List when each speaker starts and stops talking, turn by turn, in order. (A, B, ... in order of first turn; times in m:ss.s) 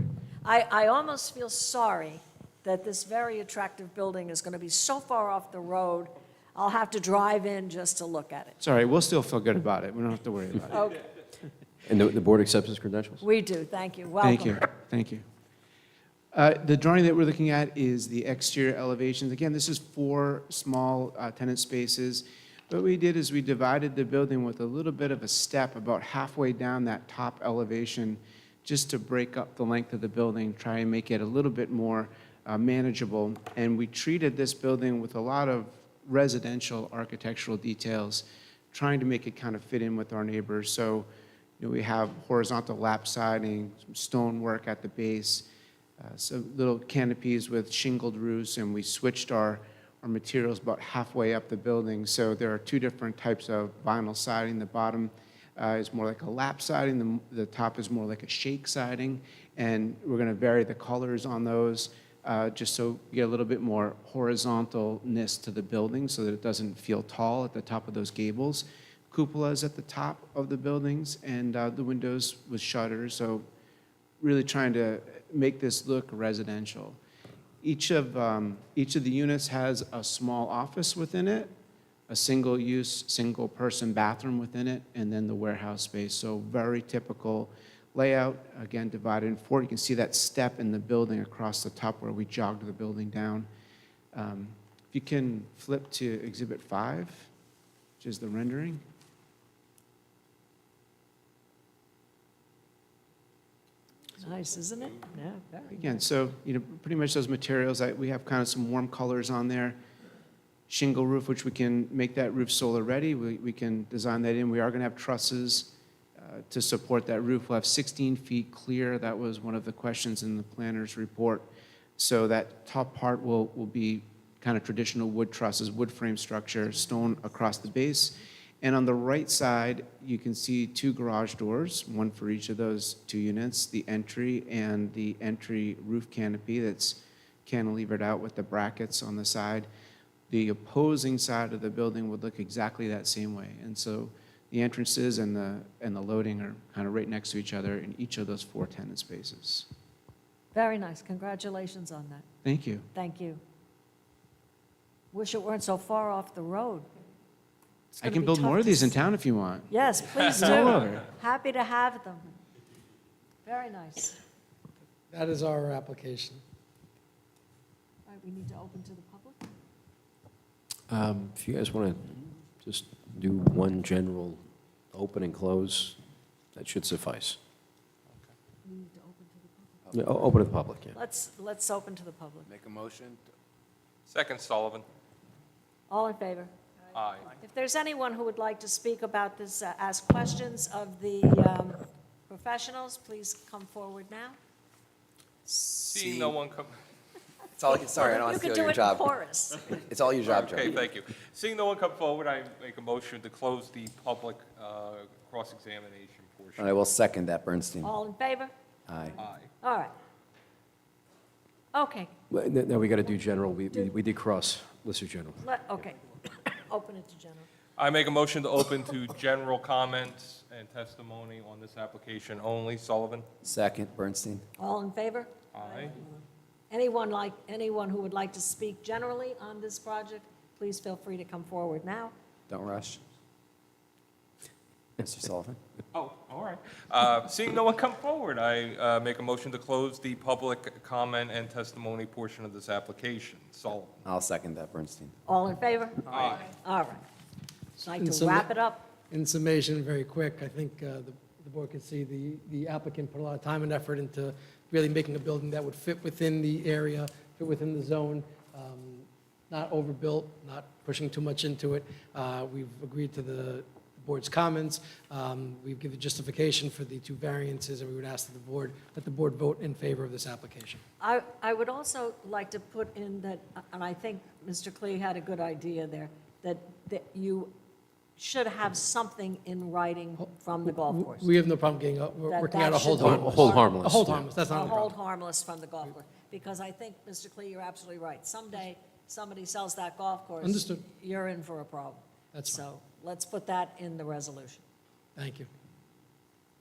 0:00.4-0:08.6 A
0:08.6-0:10.8 B
0:10.7-0:11.0 A
0:11.8-0:13.2 C
0:13.2-0:14.6 A
0:14.2-0:15.2 B
0:16.3-0:41.1 B
0:41.6-0:45.4 B
0:46.0-1:13.4 B
1:14.2-1:17.0 B
1:17.6-1:21.5 B
1:22.1-1:33.5 B
1:34.1-1:37.3 B
1:38.0-1:38.8 B
1:44.2-1:46.0 A
1:45.7-1:49.8 B
1:50.7-2:19.7 B
2:20.3-2:29.7 B
2:30.5-2:32.2 A
2:32.4-2:32.9 B
2:32.9-2:33.4 A
2:35.1-2:36.9 A
2:37.9-2:39.0 A
2:38.0-2:39.7 B
2:39.7-2:42.2 A
2:40.4-2:41.1 B
2:43.4-2:44.2 A
2:45.1-2:46.4 D
2:48.0-2:49.5 A
2:50.9-2:56.0 C
2:56.5-2:57.4 C
2:58.6-2:59.7 A
2:59.8-3:00.3 E
2:59.9-3:01.0 C
3:00.9-3:02.4 A
3:02.4-3:03.2 E
3:04.1-3:04.8 F
3:05.9-3:06.5 A
3:06.9-3:07.4 F
3:07.3-3:14.4 A
3:15.9-3:16.7 F
3:15.9-3:16.4 E
3:17.6-3:19.2 E
3:17.7-3:19.8 A
3:19.7-3:20.8 E
3:20.2-3:26.8 F
3:26.6-3:27.9 E
3:27.8-3:28.5 A
3:28.9-3:29.2 E
3:29.2-3:29.5 F
3:29.6-3:29.9 A
3:31.7-3:32.1 A
3:32.3-3:35.4 C
3:35.4-3:37.5 A
3:37.8-3:43.2 F
3:43.4-3:44.4 E
3:44.6-3:45.9 A
3:45.5-3:46.0 F
3:46.7-3:52.1 A
3:52.5-3:53.0 E
3:55.0-3:55.6 E
3:55.9-4:04.0 F
4:04.0-4:05.1 E
4:05.2-4:07.0 A
4:06.1-4:06.5 F
4:07.8-4:30.8 D
4:07.8-4:08.9 A
4:31.0-4:37.5 A
4:38.2-4:41.3 A
4:40.2-4:44.9 D
4:42.3-4:43.6 A
4:43.0-4:44.3 C
4:44.4-4:54.6 A
4:50.4-4:50.8 D
4:52.3-4:52.6 D
4:55.2-4:55.5 D